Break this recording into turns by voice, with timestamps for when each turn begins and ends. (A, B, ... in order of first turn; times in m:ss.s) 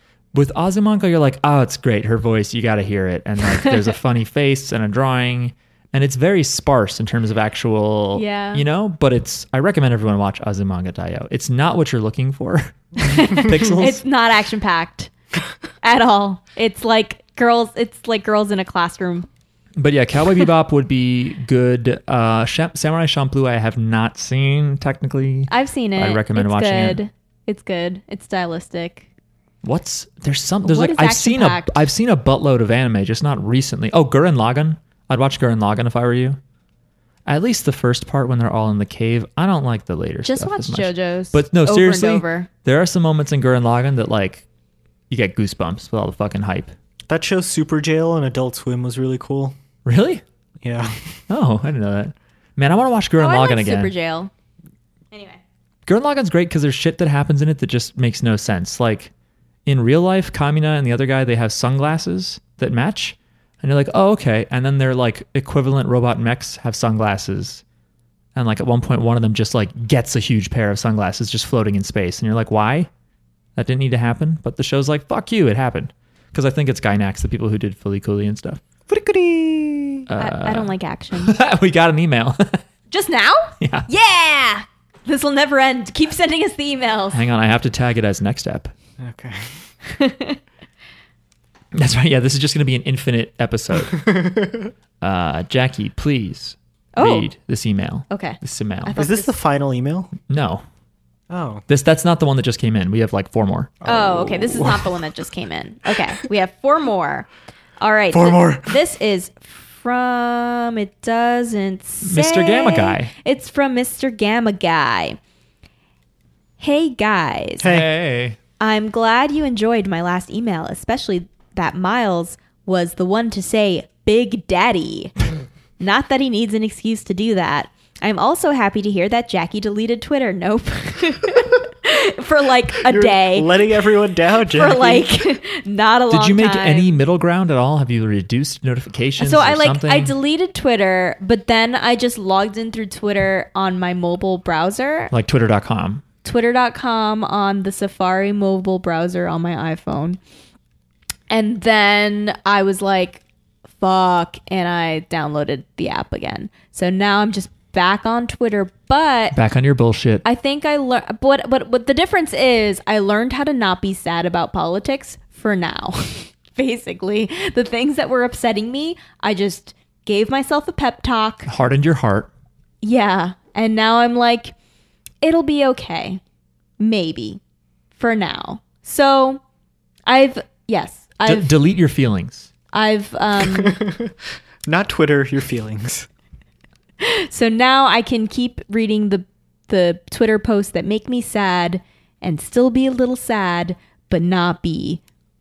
0:00.3-0:14.0 A
0:03.5-0:03.8 B
0:08.1-0:08.6 B
0:13.0-0:15.1 B
0:15.8-0:19.3 B
0:19.8-0:27.0 A
0:25.5-0:29.1 B
0:29.6-0:36.4 A
0:30.6-0:31.8 B
0:37.2-0:44.4 A
0:40.2-0:42.5 B
0:45.1-0:46.7 A
0:47.1-0:49.6 C
0:49.8-0:50.2 A
0:50.6-0:51.2 C
0:51.3-0:53.9 A
0:53.2-0:54.3 B
0:55.1-0:55.4 B
0:55.8-0:59.1 A
0:59.6-1:07.6 A
1:08.3-1:12.9 A
1:13.6-1:18.6 A
1:18.9-1:20.1 C
1:20.1-1:22.6 A
1:20.2-1:21.4 B
1:22.9-1:27.2 B
1:23.6-1:23.9 A
1:27.1-1:28.7 A
1:29.0-1:29.6 C
1:29.8-1:30.4 B
1:31.7-1:34.1 A
1:33.8-1:34.7 C
1:35.0-1:38.9 A
1:36.9-1:37.3 B
1:38.1-1:39.4 B
1:39.0-1:40.1 C
1:40.3-1:40.6 A
1:41.3-1:41.6 C
1:41.7-1:43.8 A
1:43.8-1:45.0 C
1:43.8-1:47.3 B
1:47.8-1:55.2 B
1:48.1-1:48.8 C
1:52.0-1:53.1 A
1:56.6-1:57.7 B
1:57.6-1:58.4 A
1:57.6-1:57.9 C
1:58.6-2:05.1 B
2:05.8-2:13.8 B
2:12.8-2:15.1 C
2:14.4-2:16.9 B
2:16.1-2:20.1 A
2:19.2-2:25.1 B
2:25.1-2:26.0 A
2:26.2-2:30.2 B
2:31.3-2:33.2 B
2:33.8-2:39.4 B
2:39.3-2:40.2 A
2:40.2-2:51.5 B
2:51.4-2:52.3 A
2:52.8-2:54.5 B
2:55.2-2:56.2 B
2:56.8-2:57.4 B
2:58.0-2:59.4 B
3:00.1-3:01.5 B
3:01.2-3:02.5 A
3:02.7-3:03.8 B
3:03.4-3:06.1 C
3:07.0-3:15.0 B